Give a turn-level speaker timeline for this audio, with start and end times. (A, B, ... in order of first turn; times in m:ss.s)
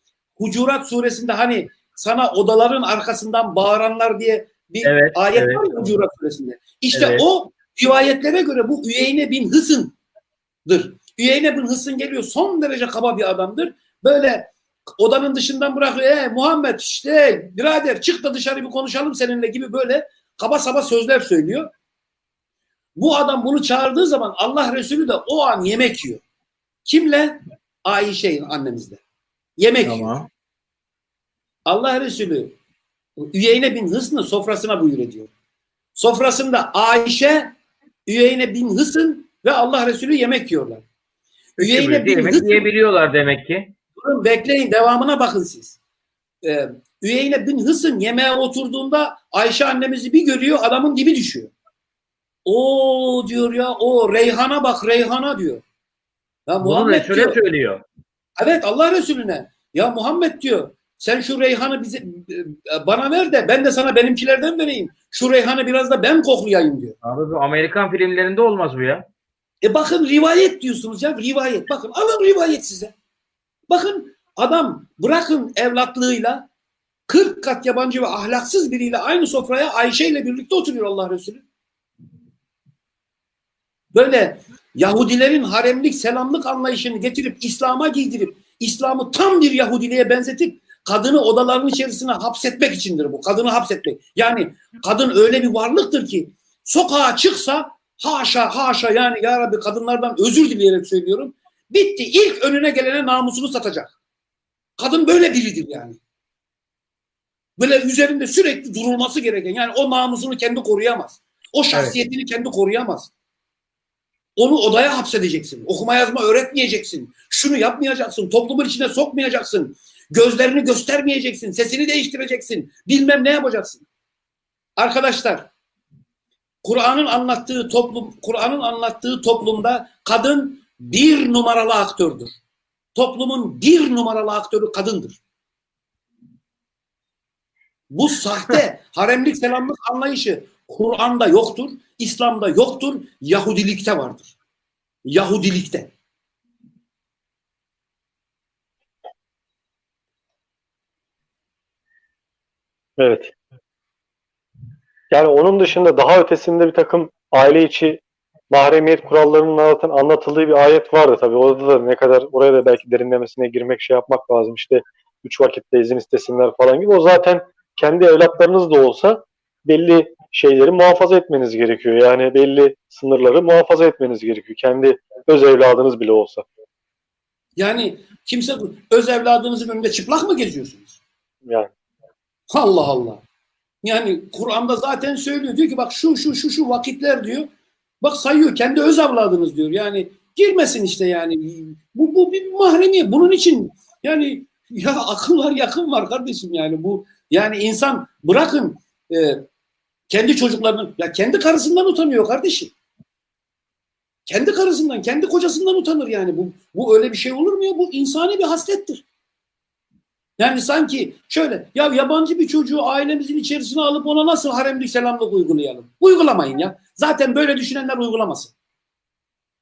0:00.4-0:10.0 A
0:04.8-0:06.0 B
0:06.9-0:07.2 B
0:10.7-0:21.7 A
0:23.0-0:26.2 A
0:26.9-0:29.0 A
0:29.6-0:30.2 A
0:29.8-0:30.3 B
0:31.7-0:32.6 A
0:33.2-0:35.3 A
0:36.0-0:40.8 A
0:41.6-0:43.7 B
0:41.6-0:42.7 A
0:44.0-0:45.8 A
0:46.4-0:51.5 A
0:52.4-0:55.6 A
0:56.5-0:57.4 A
0:56.6-0:57.8 B
0:58.4-1:07.0 A
1:07.0-1:09.0 B
1:09.6-1:12.9 A
1:13.7-1:16.5 A
1:17.1-1:21.4 A
1:23.9-1:44.0 A
1:44.8-1:46.0 A
1:47.6-1:53.1 A
1:54.4-2:03.8 A
2:04.8-2:05.5 A
2:06.6-2:12.4 A
2:13.0-2:15.2 A
2:17.9-2:24.3 A
2:25.1-2:25.9 A
2:33.0-2:33.3 C
2:35.1-2:56.5 C
2:57.6-3:01.0 A
3:02.5-3:03.2 A
3:03.8-3:07.5 A
3:08.0-3:19.4 A
3:20.1-3:22.7 A
3:24.3-3:29.0 A
3:30.4-3:38.5 A